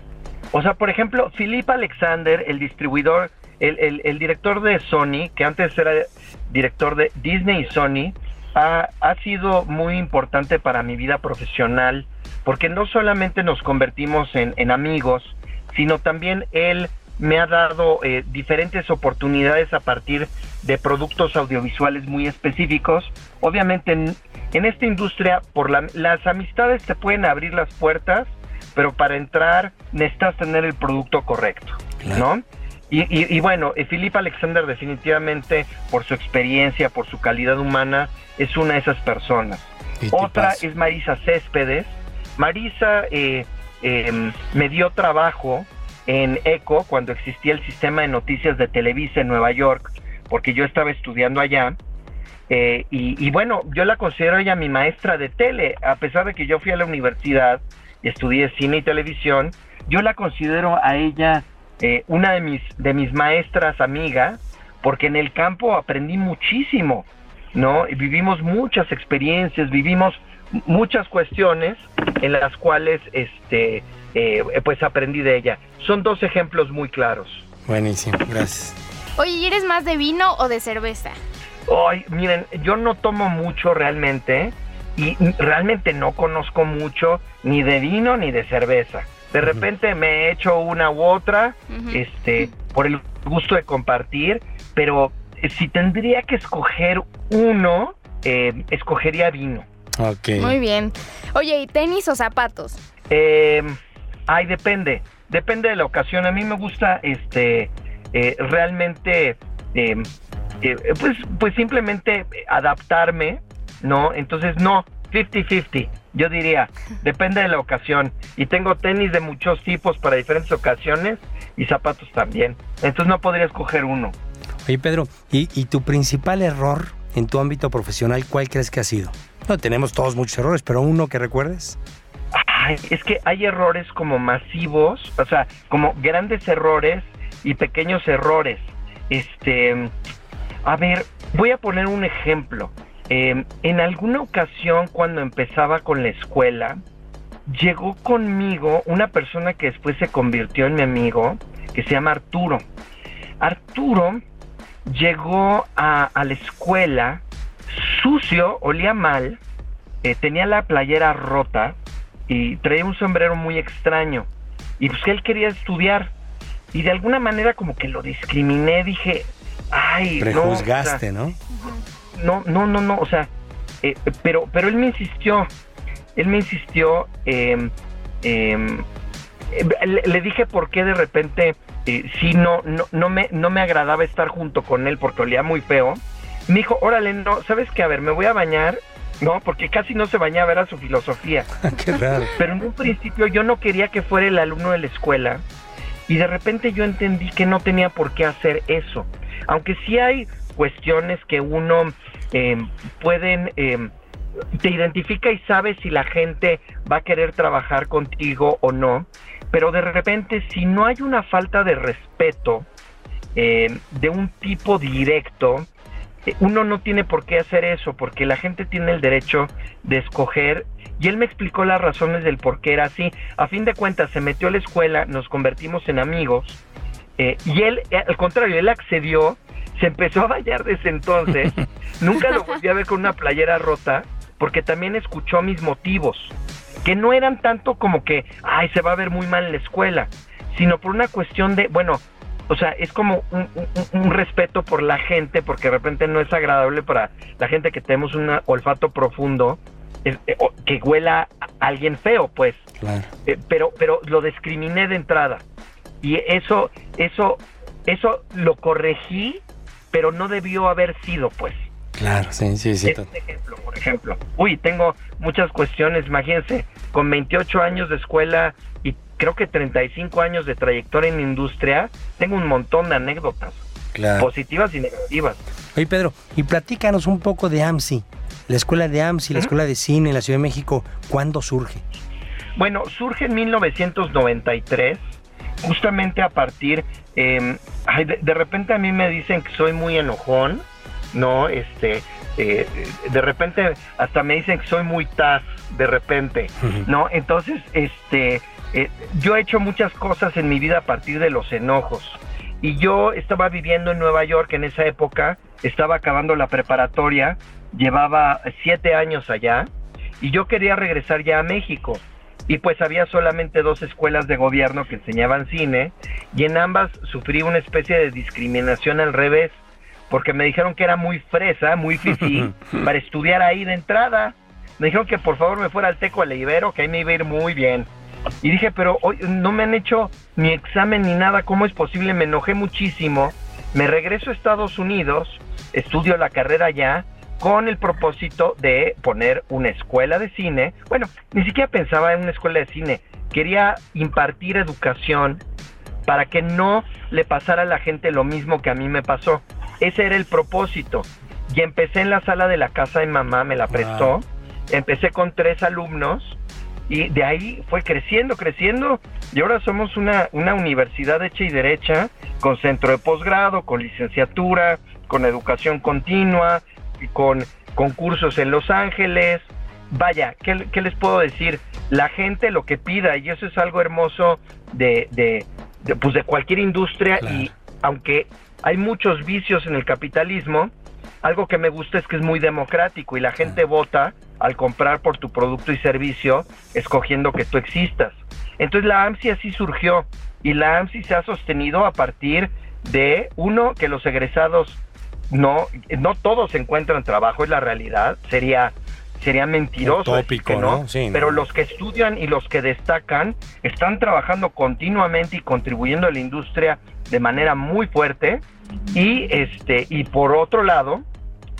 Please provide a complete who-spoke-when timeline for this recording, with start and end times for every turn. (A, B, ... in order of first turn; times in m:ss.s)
0:00.5-0:51.8 A
0:32.0-0:32.2 B
0:40.0-0:40.6 B
0:52.5-1:17.5 A
1:17.6-1:18.8 B
1:19.2-1:21.2 C
1:21.7-1:39.6 A
1:40.0-1:40.5 B
1:40.4-1:42.8 C
1:43.1-1:43.8 A
1:44.3-1:50.1 A
1:50.6-2:04.1 A
2:04.6-2:11.8 B
2:12.3-2:19.9 A
2:20.6-2:26.8 A
2:27.5-2:32.6 A
2:33.4-2:34.2 A
2:34.8-2:39.4 A
2:40.0-2:41.8 A
2:42.3-2:44.3 A
2:44.8-2:46.1 A
2:46.7-2:51.0 A
2:50.2-2:51.4 B
2:51.6-2:53.3 A
2:53.8-2:55.5 A
2:56.2-2:57.7 A
2:58.2-2:58.8 A
2:59.5-3:11.5 A
3:11.6-3:12.3 B
3:12.3-3:15.4 A
3:16.1-3:23.9 A
3:24.6-3:32.7 A
3:33.3-3:35.7 A
3:36.3-3:46.6 A
3:47.2-3:56.3 A
3:56.8-4:12.6 A
4:12.8-4:13.1 B
4:13.2-4:15.4 A
4:16.0-4:19.4 A
4:19.9-4:21.7 A
4:22.0-4:23.0 B
4:22.8-4:33.6 A
4:33.9-4:34.3 B
4:34.2-4:35.4 A
4:35.7-4:41.8 B
4:42.6-4:45.0 A
4:45.6-5:09.7 A
5:10.2-5:19.6 A
5:20.1-5:27.9 A
5:28.4-5:45.4 A
5:46.0-5:56.4 A
5:53.7-5:54.1 B
5:56.9-6:20.7 A
6:17.2-6:17.5 B
6:21.2-6:51.0 A
6:39.8-6:41.3 B